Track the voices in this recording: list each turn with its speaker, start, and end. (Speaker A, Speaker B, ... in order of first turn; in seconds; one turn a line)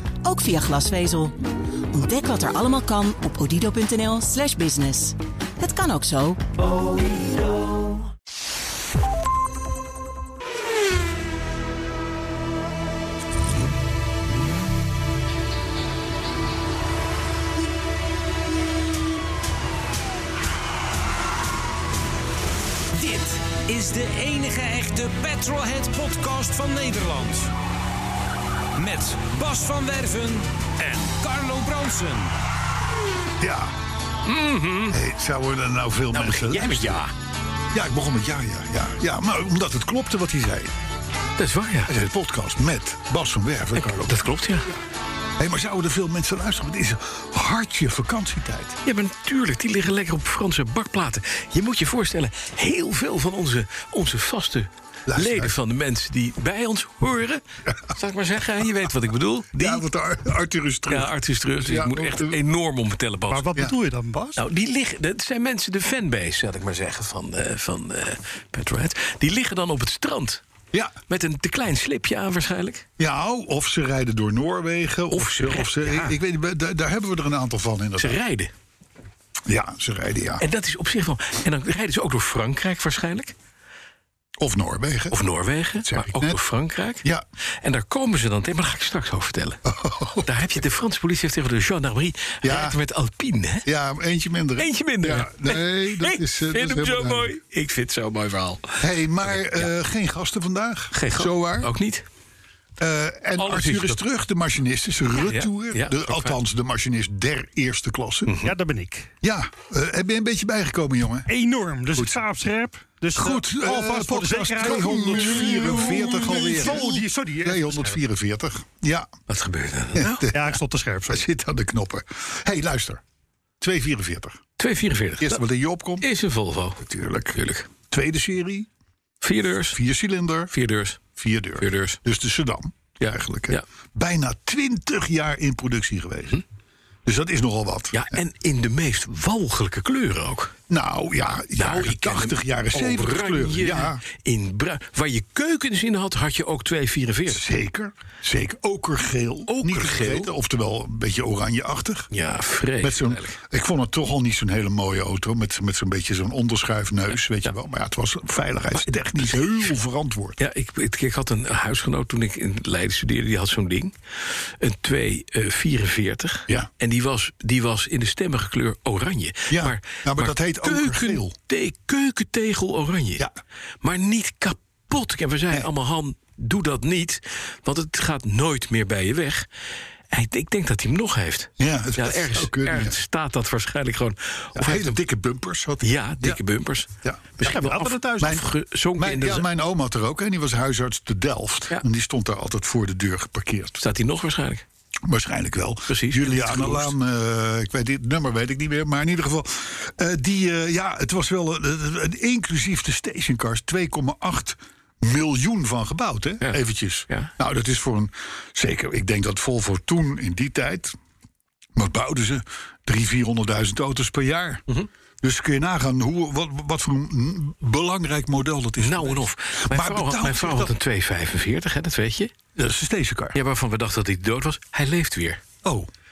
Speaker A: 0.2-1.4
Speaker A: 1.9-7.0
Speaker B: 22.9-27.5
Speaker B: 28.8-32.3
Speaker C: 33.4-33.7
Speaker D: 34.2-35.0
Speaker C: 34.9-36.9
Speaker D: 36.1-37.1
Speaker C: 37.7-40.7
Speaker D: 41.4-41.9
Speaker C: 41.9-44.2
Speaker D: 43.7-44.7
Speaker C: 45.4-48.8
Speaker D: 48.8-59.8
Speaker C: 55.1-55.5
Speaker C: 59.5-62.4
Speaker D: 60.9-63.5
Speaker E: 63.3-64.4
Speaker D: 64.3-70.4
Speaker D: 71.1-72.8
Speaker C: 73.0-78.2
Speaker D: 75.1-76.2
Speaker D: 78.0-78.5
Speaker C: 79.5-80.4
Speaker D: 80.4-83.3
Speaker C: 84.4-85.2
Speaker D: 85.1-87.0
Speaker C: 85.8-86.4
Speaker D: 87.6-89.6
Speaker C: 89.6-90.3
Speaker D: 90.2-93.7
Speaker C: 92.4-92.8
Speaker C: 93.6-97.3
Speaker D: 94.6-99.7
Speaker C: 98.8-101.7
Speaker D: 100.9-102.0
Speaker C: 102.8-108.4
Speaker D: 103.4-104.0
Speaker D: 105.0-106.4
Speaker D: 108.2-108.5
Speaker E: 108.4-109.1
Speaker C: 109.2-111.3
Speaker E: 111.3-118.0
Speaker C: 111.9-112.2
Speaker C: 113.1-119.1
Speaker D: 115.0-115.7
Speaker D: 119.3-120.3
Speaker C: 119.9-120.5
Speaker E: 120.3-121.2
Speaker C: 121.1-123.0
Speaker C: 123.6-124.4
Speaker D: 124.6-125.4
Speaker C: 125.2-126.0
Speaker D: 126.0-127.7
Speaker C: 126.9-128.7
Speaker D: 129.2-129.8
Speaker C: 129.7-130.5
Speaker D: 130.5-131.0
Speaker C: 131.2-136.4
Speaker D: 131.6-132.0
Speaker D: 133.0-133.6
Speaker C: 137.0-138.2
Speaker D: 137.9-140.5
Speaker C: 140.7-144.0
Speaker D: 141.6-147.4
Speaker C: 147.3-152.1
Speaker D: 149.5-150.3
Speaker D: 152.1-153.3
Speaker C: 152.8-160.4
Speaker D: 159.2-159.5
Speaker D: 160.4-173.2
Speaker C: 169.5-171.3
Speaker D: 173.8-179.4
Speaker D: 180.1-185.0
Speaker C: 181.6-183.0
Speaker C: 184.5-186.4
Speaker D: 185.8-189.4
Speaker C: 187.0-193.8
Speaker D: 193.8-194.6
Speaker C: 195.0-210.9
Speaker D: 195.9-196.9
Speaker C: 211.7-214.6
Speaker C: 215.2-220.7
Speaker D: 218.8-222.3
Speaker C: 222.5-223.4
Speaker D: 223.3-225.4
Speaker C: 225.6-225.9